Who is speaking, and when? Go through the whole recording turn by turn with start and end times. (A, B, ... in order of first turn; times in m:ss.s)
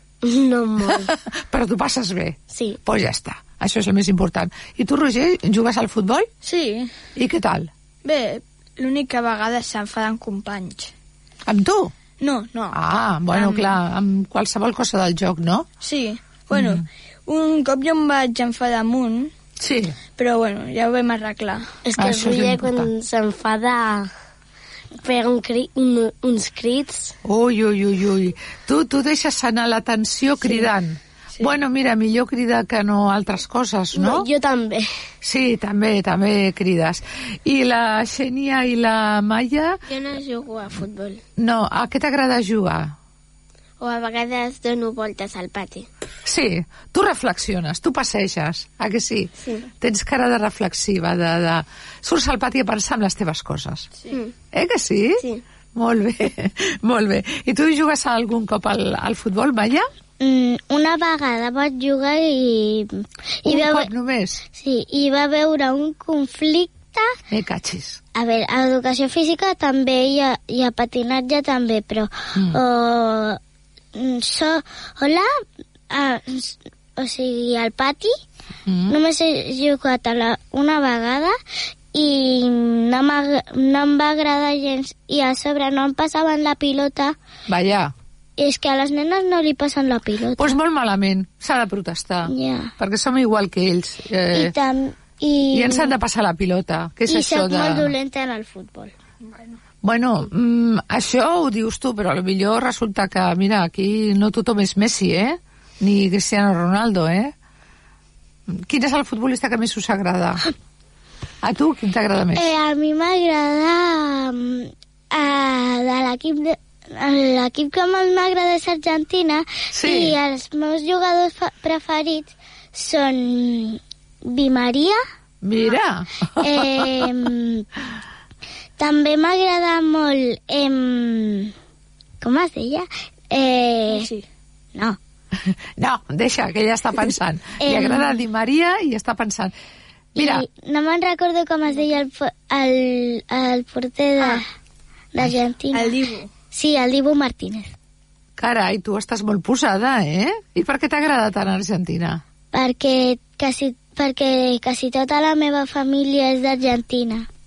0:00.2-0:01.1 A
0:00.8-0:06.3 B
0:02.5-0:02.8 A
0:06.4-0:06.9 C
0:07.2-0:07.7 B
0:08.0-0:10.9 C
0:11.5-0:11.9 B
0:12.2-0:12.8 C
0:12.7-0:15.7 B
0:13.3-0:13.8 C
0:15.8-0:19.3 C
0:16.5-0:16.8 B
0:19.6-0:20.0 B
0:20.2-0:21.7 C
0:21.8-0:24.1 A
0:22.0-0:22.9 B
0:25.0-0:27.2 A
0:27.2-0:34.3 B
0:33.9-0:34.9 A
0:35.2-0:39.8 B
0:39.9-0:41.2 D
0:41.4-0:43.0 B
0:43.8-0:45.8 D
0:46.2-0:53.9 B
0:54.5-0:55.2 B
0:55.8-0:59.9 B
1:00.2-1:03.9 E
1:03.4-1:04.4 B
1:04.6-1:07.2 E
1:07.3-1:08.0 B
1:08.2-1:13.4 E
1:12.4-1:12.6 B
1:14.0-1:15.3 E
1:15.9-1:18.1 E
1:18.7-1:19.0 B
1:18.9-1:21.3 E
1:21.9-1:27.2 E
1:27.5-1:27.9 B
1:28.4-1:30.5 E
1:30.4-1:34.5 B
1:32.3-1:32.7 E
1:34.3-1:35.9 E
1:35.5-1:37.9 B
1:37.1-1:38.9 E
1:39.8-1:47.3 B
1:48.5-1:50.4 B
1:51.4-1:52.5 B
1:52.3-2:05.0 E
1:59.7-2:00.2 B
2:05.4-2:07.1 B
2:06.4-2:07.7 E
2:08.8-2:11.5 E
2:12.2-2:14.1 E
2:13.9-2:14.2 C
2:15.4-2:19.5 B
2:17.6-2:18.2 E
2:20.2-2:20.4 B
2:20.2-2:24.4 E
2:25.1-2:25.9 E
2:25.7-2:26.3 C
2:26.5-2:27.7 E
2:28.4-2:32.2 B
2:32.5-2:37.3 E